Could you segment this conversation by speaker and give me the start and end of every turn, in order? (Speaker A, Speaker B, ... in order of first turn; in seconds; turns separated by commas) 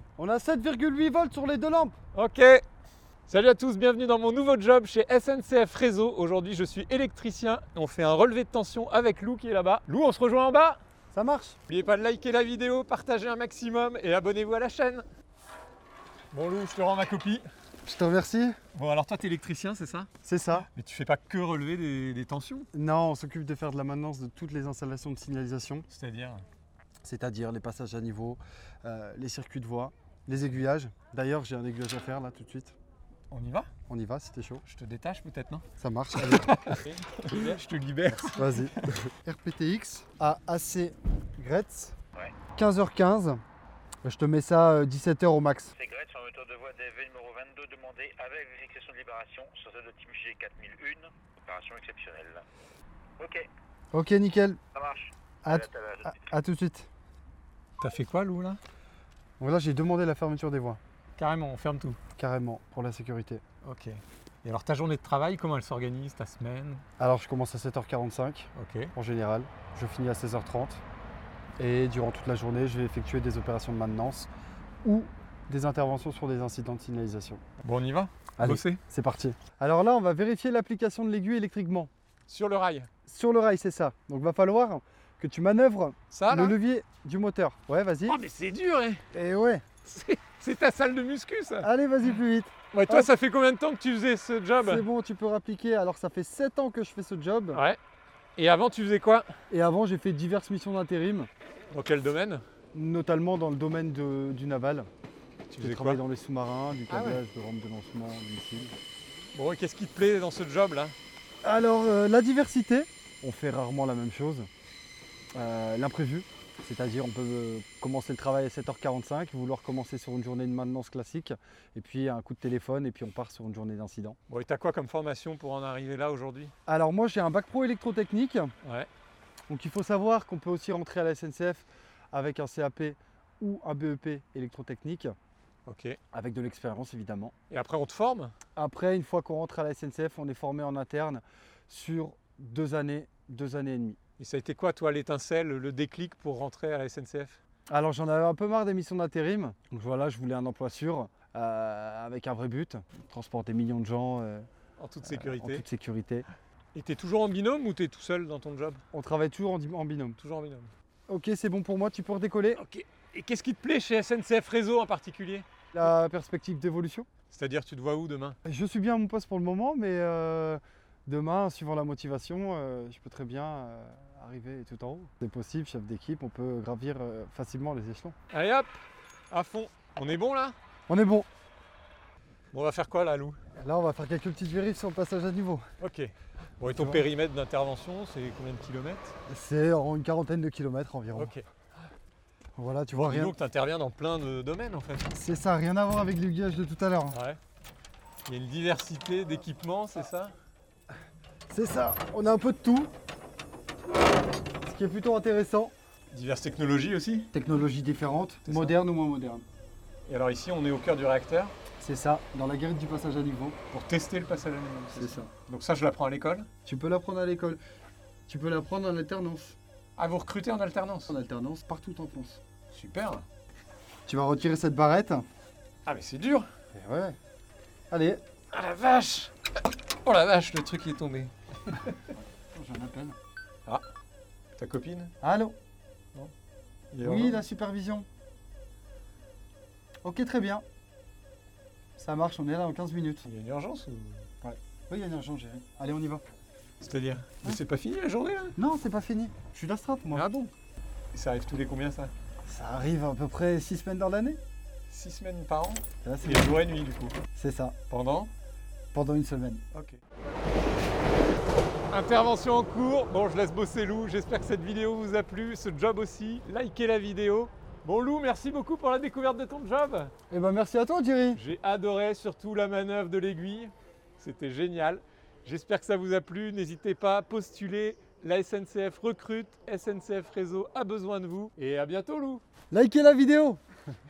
Speaker A: 0.2-1.9, Speaker B: 2.1-2.6, Speaker B: 3.3-10.8, Speaker A: 11.1-11.6, Speaker B: 11.7-15.1, Speaker B: 16.3-17.4, Speaker A: 17.9-18.5, Speaker B: 18.7-22.7, Speaker A: 20.3-20.6, Speaker A: 22.8-25.9, Speaker B: 25.9-26.4, Speaker A: 27.0-32.7, Speaker B: 33.3-33.7, Speaker A: 33.9-34.6, Speaker B: 34.6-38.9, Speaker A: 35.8-36.6, Speaker A: 38.3-41.9, Speaker A: 42.5-43.4, Speaker A: 44.0-45.7, Speaker C: 45.8-52.5, Speaker C: 53.2-53.5, Speaker A: 53.9-54.6, Speaker C: 54.7-56.2, Speaker A: 55.5-56.9, Speaker B: 57.8-58.6, Speaker A: 59.4-60.8, Speaker B: 61.2-62.0, Speaker A: 62.2-63.4, Speaker B: 63.6-66.8, Speaker A: 67.0-70.8, Speaker B: 68.5-68.9, Speaker A: 71.6-74.3, Speaker A: 74.8-77.4, Speaker B: 77.6-78.8, Speaker A: 78.4-81.9, Speaker B: 82.3-82.9, Speaker A: 83.1-88.2, Speaker B: 86.1-86.6, Speaker B: 88.1-89.0, Speaker A: 89.1-89.6, Speaker B: 89.8-92.1, Speaker A: 91.6-93.1, Speaker B: 92.7-94.9, Speaker A: 94.6-97.6, Speaker B: 97.5-97.8, Speaker B: 98.4-99.3, Speaker A: 99.5-101.3, Speaker B: 101.7-102.4, Speaker A: 102.7-104.9, Speaker B: 105.5-106.0, Speaker A: 105.6-108.7, Speaker B: 106.9-107.2, Speaker B: 109.3-111.0, Speaker A: 111.5-114.5, Speaker A: 115.3-124.2, Speaker B: 124.3-126.5, Speaker A: 126.7-128.5, Speaker B: 128.6-128.9, Speaker A: 129.5-135.1, Speaker B: 135.7-136.0, Speaker A: 136.1-137.3, Speaker B: 137.5-138.3, Speaker A: 138.6-144.0, Speaker B: 144.2-147.4, Speaker A: 147.7-154.4, Speaker B: 154.8-155.7, Speaker A: 155.3-156.2, Speaker B: 156.7-158.8, Speaker A: 158.9-160.2, Speaker B: 160.2-160.7, Speaker A: 161.1-162.6, Speaker B: 162.5-165.5, Speaker A: 165.7-167.1, Speaker B: 167.3-168.4, Speaker A: 168.5-178.1, Speaker B: 178.3-178.8, Speaker B: 179.3-180.6, Speaker A: 180.9-181.3, Speaker B: 182.5-183.4, Speaker A: 183.6-185.6, Speaker B: 185.8-189.2, Speaker A: 186.7-187.0, Speaker A: 189.3-191.3, Speaker B: 191.1-191.4, Speaker A: 192.6-193.3, Speaker B: 192.9-195.1, Speaker A: 195.2-197.2, Speaker B: 197.1-197.4, Speaker B: 198.2-200.3, Speaker A: 201.5-202.9, Speaker A: 204.7-205.7, Speaker B: 206.1-207.3, Speaker A: 207.3-209.4, Speaker B: 208.4-208.8, Speaker B: 210.1-211.5, Speaker A: 211.8-213.6, Speaker B: 213.7-216.5, Speaker A: 215.0-215.3, Speaker A: 216.7-217.6, Speaker A: 218.3-219.6, Speaker B: 220.0-221.2, Speaker A: 221.1-222.4, Speaker B: 222.7-223.2, Speaker A: 224.1-225.2, Speaker B: 225.8-226.5, Speaker A: 226.7-227.1, Speaker A: 227.9-228.2, Speaker B: 228.5-232.1, Speaker A: 232.5-233.2, Speaker B: 234.6-235.1, Speaker A: 235.2-235.6, Speaker B: 236.9-237.4, Speaker A: 237.0-238.1, Speaker A: 240.0-240.6, Speaker A: 242.0-243.2, Speaker B: 243.2-244.3, Speaker A: 244.4-246.2, Speaker B: 246.8-248.6, Speaker A: 248.6-250.3, Speaker B: 250.1-250.5, Speaker B: 251.1-252.1, Speaker A: 252.5-254.4, Speaker B: 254.9-257.2, Speaker A: 256.0-256.4, Speaker A: 257.4-257.7, Speaker B: 257.9-258.3, Speaker A: 258.9-259.6, Speaker B: 259.7-260.0, Speaker B: 261.9-270.1, Speaker A: 270.3-271.4, Speaker B: 271.3-282.4, Speaker A: 282.7-283.6